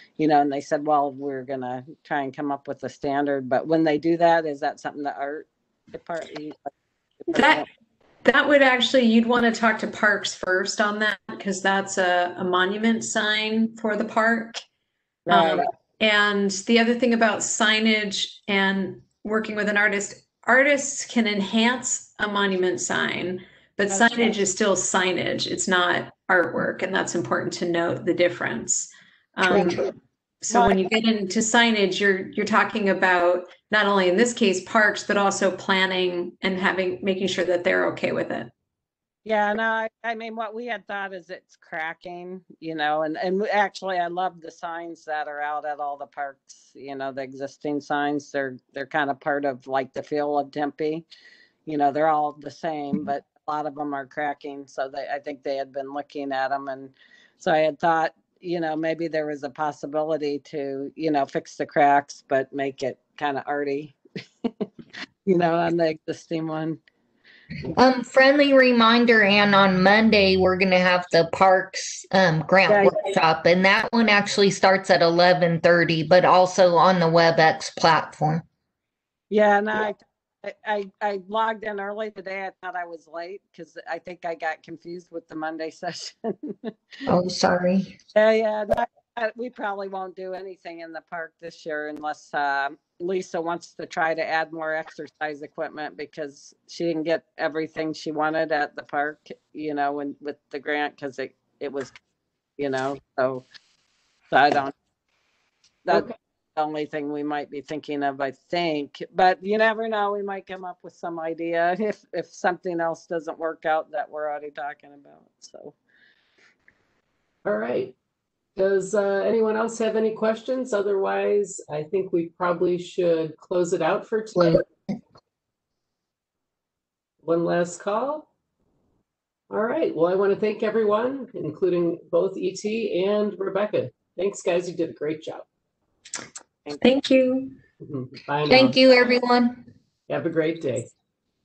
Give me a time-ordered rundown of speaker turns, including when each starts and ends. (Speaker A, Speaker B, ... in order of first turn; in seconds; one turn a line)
Speaker A: 0.2-6.7
Speaker A: 7.2-7.7
Speaker B: 7.3-7.7
Speaker B: 8.2-14.6
Speaker A: 15.3-15.7
Speaker B: 15.3-29.8
Speaker A: 23.9-24.3
Speaker B: 30.4-38.5
Speaker A: 30.5-30.8
Speaker A: 39.2-51.0
Speaker A: 51.6-64.7
Speaker A: 65.2-66.8
Speaker C: 67.7-78.4
Speaker A: 72.7-73.0
Speaker A: 79.3-86.7
Speaker C: 87.0-88.0
Speaker A: 88.1-101.9
Speaker A: 102.6-103.4
Speaker A: 104.3-104.7
Speaker A: 105.8-115.8
Speaker D: 105.9-106.1
Speaker D: 117.4-117.9
Speaker D: 118.5-124.6
Speaker C: 124.4-124.6
Speaker D: 127.2-128.3
Speaker D: 129.5-135.5
Speaker B: 136.8-137.6
Speaker D: 137.8-138.8
Speaker C: 138.5-139.6
Speaker D: 140.1-140.9